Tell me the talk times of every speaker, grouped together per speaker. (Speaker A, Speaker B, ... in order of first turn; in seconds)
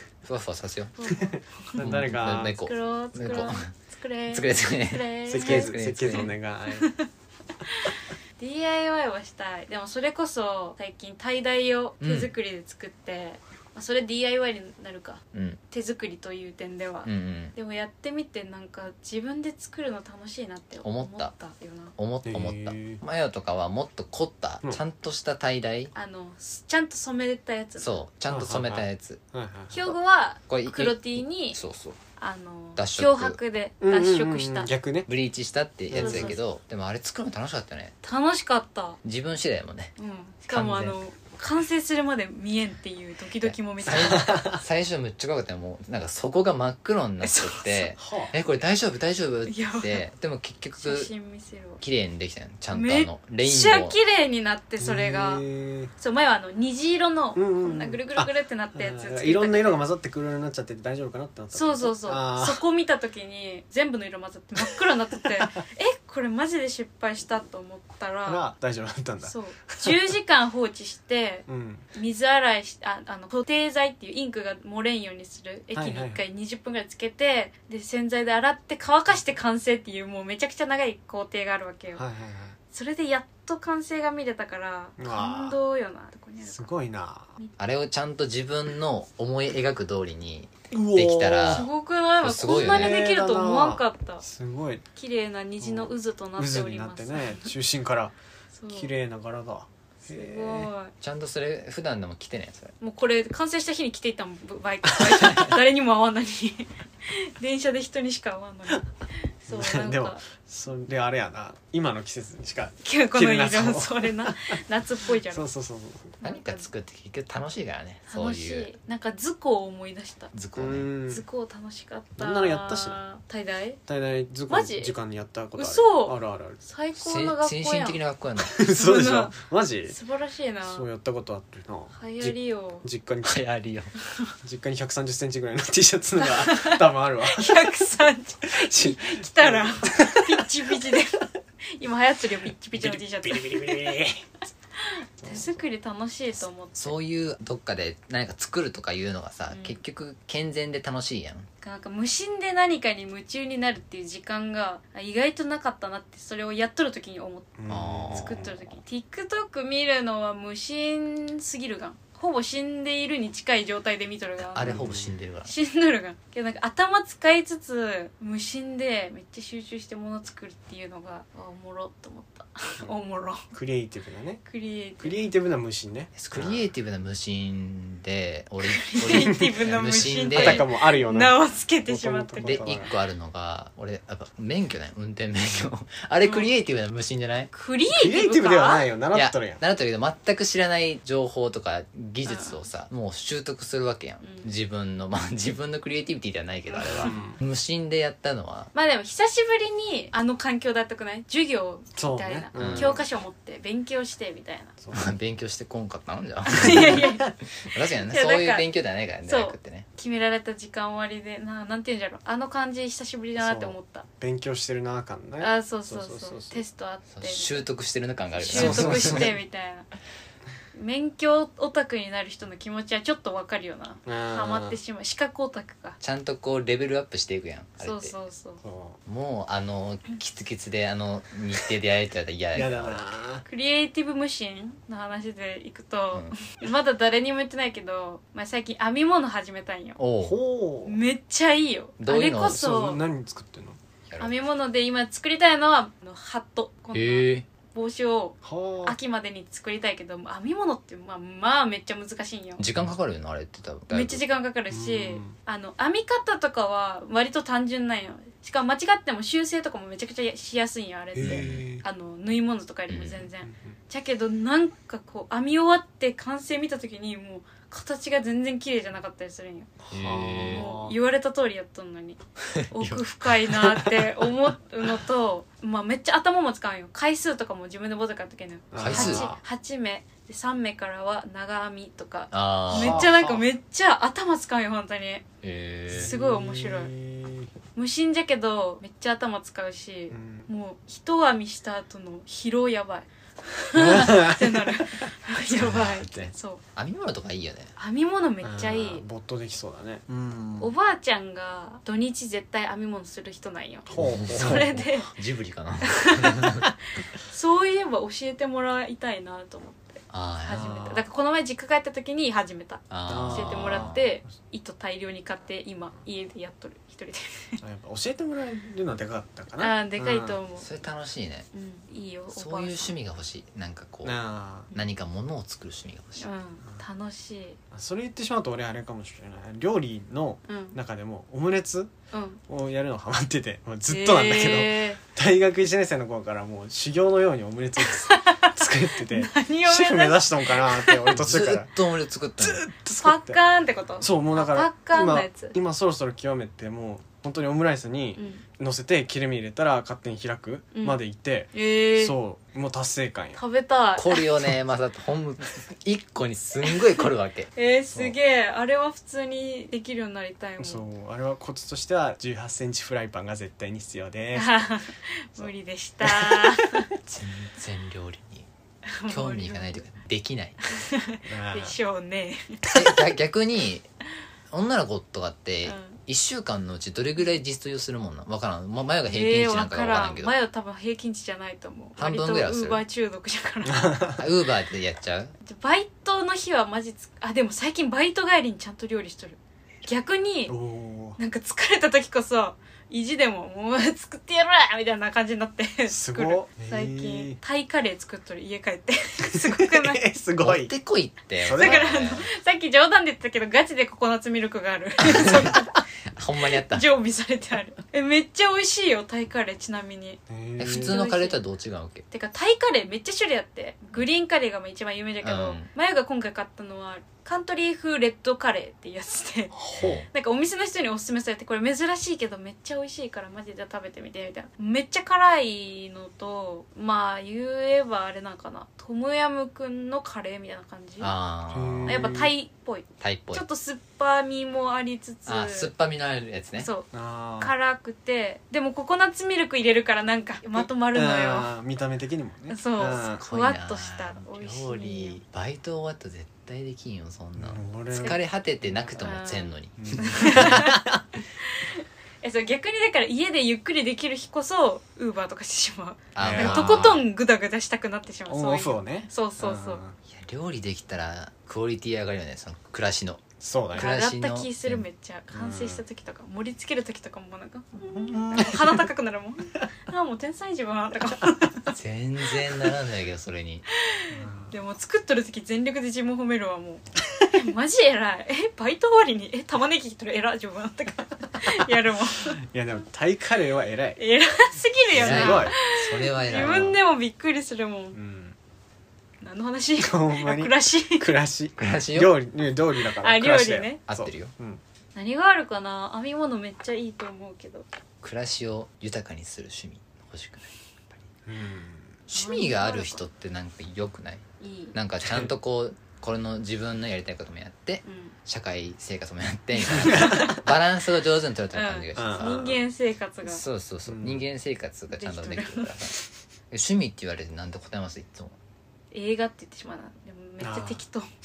Speaker A: 0.2-0.9, 1.8-3.7, 4.3-6.3, 12.0-12.3, 15.3-15.6, 17.1-17.5, 20.8-21.3, 22.0-25.9, 27.8-29.2, 30.5-32.0, 32.8-33.4, 35.1-37.9, 39.0-39.9, 40.5-41.0, 43.4-51.1, 51.8-54.0, 87.6-91.7, 92.2-93.0, 101.0-102.7, 105.2-105.5, 116.2-118.7, 120.3-120.9, 127.0-128.6, 133.2-133.9, 146.8-151.5, 157.7-158.5, 164.4-165.5, 176.1-180.7, 182.4-187.5, 189.1-198.7, 202.6-202.9, 204.9-209.9, 217.1-219.3, 226.0-228.1, 229.1-233.1, 240.0-240.4, 242.0-242.6, 244.1-244.4, 246.9-247.4, 252.6-254.2, 261.2-261.7, 262.9-263.3, 269.9-270.7, 272.5-273.0, 278.7-279.3, 282.3-283.1, 285.4-286.1, 295.5-297.7, 303.9-306.6, 310.1-310.8, 312.9-314.0, 320.6-321.5, 322.3-324.2, 324.7-326.3, 341.1-342.6, 353.9-358.1, 367.1-368.5, 369.1-370.6, 372.7-373.9, 374.5-380.3, 382.0-382.8, 384.2-385.3, 400.4-402.3, 405.0-405.6, 406.1-406.9, 410.6-412.0, 415.2-415.7, 419.8-420.1, 431.0-432.0, 433.0-433.4, 435.2-436.7, 442.9-450.6, 456.1-457.0, 460.1-464.8, 471.7-473.6, 484.9-486.7, 491.6-492.1, 493.9-494.3, 498.0-500.5, 502.1-512.5, 513.2-516.0, 516.5-518.4
Speaker B: 0.9-1.9, 2.5-7.1, 7.6-21.9, 25.9-28.0, 29.7-31.6, 32.2-34.7, 35.9-36.4, 38.0-39.0, 40.0-44.5, 47.2-47.9, 49.5-50.0, 50.8-51.8, 52.7-55.4, 56.0-59.8, 61.5-68.4, 69.2-82.0, 82.7-86.7, 91.5-94.2, 95.0-97.5, 98.5-98.9, 100.1-100.9, 102.8-108.9, 109.4-110.2, 112.8-115.5, 116.2-116.7, 118.1-120.3, 121.1-123.8, 124.5-124.9, 125.5-128.0, 128.7-130.9, 131.9-132.8, 136.2-144.0, 144.8-146.9, 149.5-149.8, 151.6-157.5, 158.1-164.9, 165.4-173.4, 174.5-175.2, 178.6-182.7, 186.2-186.5, 187.5-188.9, 192.2-192.6, 194.2-194.5, 196.7-197.3, 198.7-204.7, 206.5-207.3, 208.0-208.7, 209.2-214.0, 215.4-217.7, 218.3-219.9, 220.7-226.0, 227.8-228.6, 233.4-240.0, 240.8-243.0, 244.2-252.6, 253.9-269.7, 270.4-285.2, 285.9-286.9, 287.7-296.6, 297.8-299.0, 300.6-305.1, 305.8-306.7, 307.2-317.6, 319.6-320.7, 321.5-322.9, 326.2-327.6, 330.5-330.8, 332.1-332.4, 333.9-335.0, 337.8-341.0, 343.0-345.5, 348.2-348.4, 350.7-351.0, 351.5-352.1, 353.4-354.4, 357.5-360.8, 364.3-366.9, 368.9-369.8, 370.6-372.8, 375.6-376.0, 379.1-384.0, 385.4-390.5, 391.2-400.1, 401.5-405.7, 406.7-411.4, 412.1-419.6, 420.1-431.1, 431.9-435.7, 436.6-436.9, 437.4-441.5, 442.5-445.2, 449.0-450.9, 451.4-459.8, 463.7-471.7, 473.8-482.4, 484.0-488.0, 489.2-491.1, 493.0-493.8, 494.9-497.7, 502.1-503.1, 504.4-504.8, 507.8-508.1, 509.9-510.4, 511.5-513.4, 514.9-515.7, 518.9-521.1
Speaker C: 1.7-2.5, 5.3-6.9, 22.2-23.0, 28.3-29.7, 33.8-35.1, 35.9-36.4, 44.1-44.6, 48.0-48.4, 54.8-55.9, 57.4-62.6, 65.3-65.6, 68.2-70.0, 71.5-71.8, 75.7-76.2, 81.9-82.6, 85.0-85.6, 86.5-87.3, 90.7-91.7, 92.4-94.8, 95.6-98.1, 98.7-100.7, 109.5-114.6, 115.1-116.2, 120.6-121.2, 122.2-123.0, 123.9-126.6, 128.5-130.0, 130.6-133.4, 134.4-137.5, 138.4-140.5, 142.7-144.2, 145.2-145.6, 157.6-158.6, 164.6-165.1, 173.5-174.5, 175.0-176.7, 179.1-179.5, 180.1-182.9, 187.9-189.6, 196.9-197.4, 201.9-203.0, 204.8-205.1, 213.4-216.6, 218.5-219.4, 224.1-224.8, 228.6-229.0, 232.5-233.4, 240.2-241.0, 242.4-243.8, 248.4-249.0, 254.7-255.4, 261.1-261.8, 263.4-263.7, 269.8-270.9, 273.6-274.1, 278.7-279.4, 282.7-283.4, 285.9-287.5, 290.1-290.5, 293.7-295.0, 298.4-300.7, 303.9-304.8, 310.5-311.0, 313.1-314.0, 317.6-320.4, 324.0-324.7, 327.7-331.9, 332.5-341.8, 342.4-343.4, 344.0-353.4, 360.6-364.6, 366.0-366.8, 371.2-371.8, 383.6-384.2, 390.5-391.2, 395.9-397.4, 399.3-400.7, 401.4-402.0, 410.3-411.0, 419.5-420.0, 431.5-432.3, 436.9-437.5, 440.6-443.2, 447.4-449.0, 449.8-451.0, 456.2-456.9, 458.3-460.0, 463.4-463.9, 465.3-465.8, 467.8-468.9, 474.1-474.5, 482.5-484.0, 484.9-486.8, 487.9-488.4, 489.8-494.6, 501.2-502.0, 505.0-505.3, 509.7-510.4, 511.9-512.6, 513.9-514.2, 520.4-520.8